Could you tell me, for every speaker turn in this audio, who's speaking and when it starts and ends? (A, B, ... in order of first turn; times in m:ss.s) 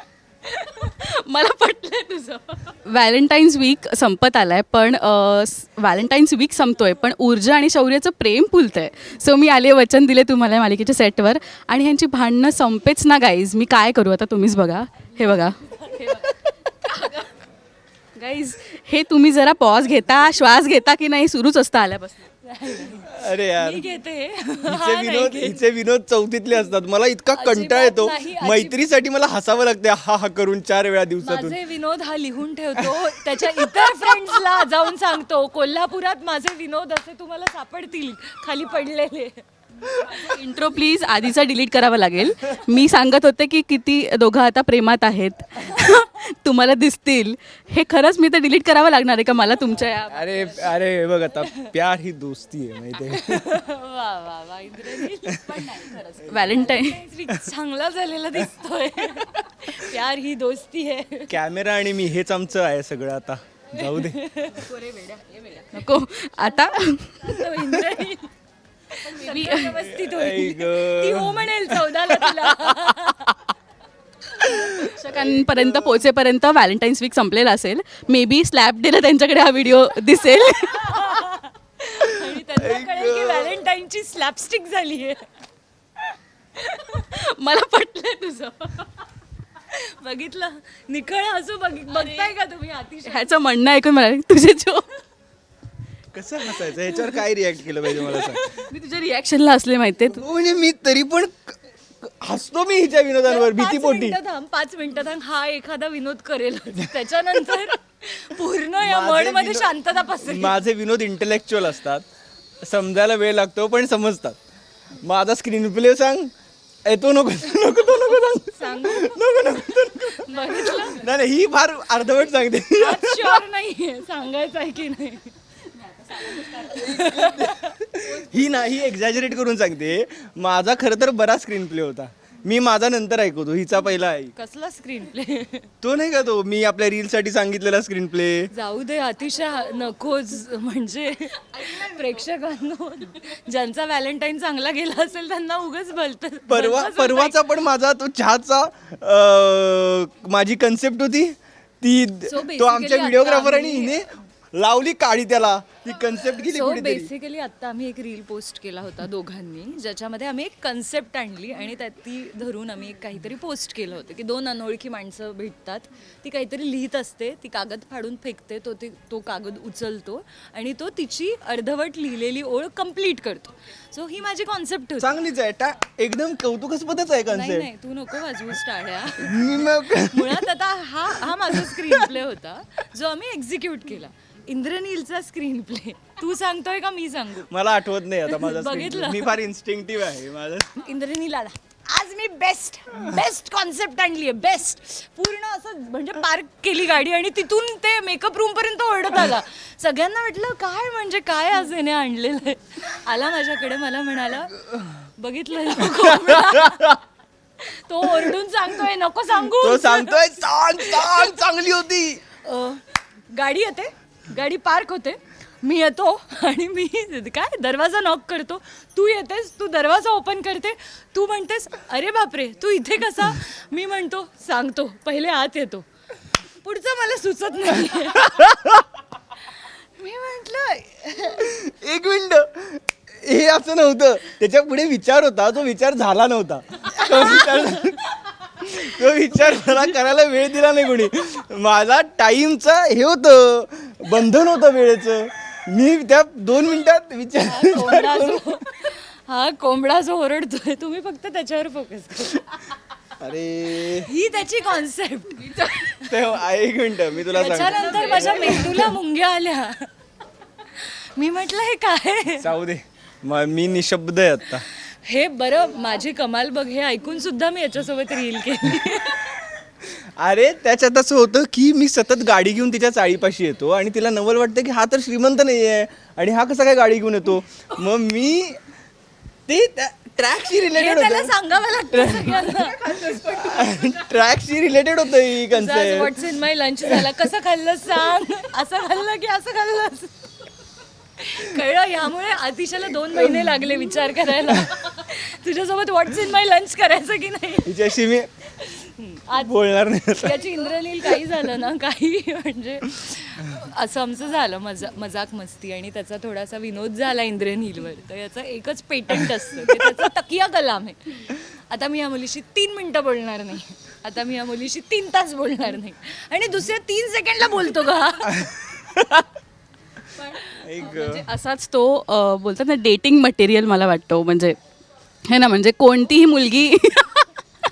0:00.4-0:17.3 A
0:18.2-0:22.3 A
0:22.4-0:25.6 B
0:23.0-0:23.8 C
0:24.7-0:31.6 C
0:27.4-0:28.8 B
0:31.2-0:39.4 B
0:32.8-0:34.7 C
0:39.8-0:40.3 C
0:40.0-0:50.5 A
0:50.1-0:53.6 C
0:53.0-1:01.4 B
0:54.9-0:55.8 C
0:55.5-0:57.0 A
0:59.0-0:59.8 C
1:01.3-1:04.2 C
1:03.8-1:04.7 B
1:04.5-1:07.6 A
1:07.2-1:08.3 B
1:08.9-1:13.4 B
1:09.0-1:09.8 A
1:09.8-1:13.1 C
1:14.4-1:16.0 C
1:14.4-1:21.0 A
1:20.5-1:25.3 B
1:22.0-1:23.6 C
1:26.7-1:28.9 A
1:29.7-1:33.3 B
1:31.9-1:32.3 A
1:33.0-1:35.0 A
1:36.1-1:38.6 C
1:38.1-1:38.6 B
1:38.2-1:40.2 A
1:40.1-1:44.2 C
1:43.2-1:50.6 B
1:48.8-1:52.1 C
1:52.6-1:54.4 C
1:55.0-1:56.3 C
1:56.8-2:03.4 C
1:58.6-1:59.2 B
2:00.0-2:01.0 B
2:02.8-2:05.3 B
2:05.7-2:07.3 A
2:06.3-2:07.8 B
2:06.6-2:14.3 C
2:14.3-2:15.7 B
2:15.8-2:18.5 C
2:18.5-2:27.5 B
2:26.5-2:37.1 C
2:32.3-2:34.0 B
2:36.4-2:55.2 B
2:55.0-2:57.7 C
2:57.3-3:07.5 B
2:59.2-3:00.5 C
3:01.4-3:02.1 C
3:07.5-3:10.8 C
3:08.3-3:09.4 B
3:10.8-3:27.0 B
3:25.8-3:27.0 C
3:27.6-3:31.4 B
3:28.1-3:28.3 C
3:29.5-3:32.2 C
3:32.4-3:45.9 B
3:46.6-3:48.5 B
3:48.2-3:48.8 C
3:49.6-3:51.5 B
3:51.4-4:08.6 C
3:57.0-3:57.5 B
4:07.4-4:12.6 B
4:13.2-4:14.1 C
4:14.0-4:16.2 B
4:15.4-4:16.0 A
4:16.0-4:18.9 C
4:17.3-4:18.7 A
4:17.3-4:19.9 B
4:20.7-4:22.5 B
4:22.4-4:24.6 C
4:24.7-4:29.4 B
4:29.8-4:38.6 C
4:39.5-4:41.4 C
4:40.7-4:43.3 B
4:41.9-4:42.5 C
4:42.5-4:43.9 A
4:43.2-4:46.3 C
4:45.4-4:50.3 B
4:46.8-4:47.2 C
4:51.2-4:57.8 B
4:53.0-4:53.6 C
4:54.3-4:54.7 C
4:57.6-4:58.3 C
4:58.6-4:59.6 B
4:59.4-5:00.5 C
5:00.2-5:18.5 B
5:09.7-5:10.0 C
5:18.3-5:19.3 C
5:20.2-5:24.6 A
5:20.5-5:21.3 C
5:25.3-5:27.3 A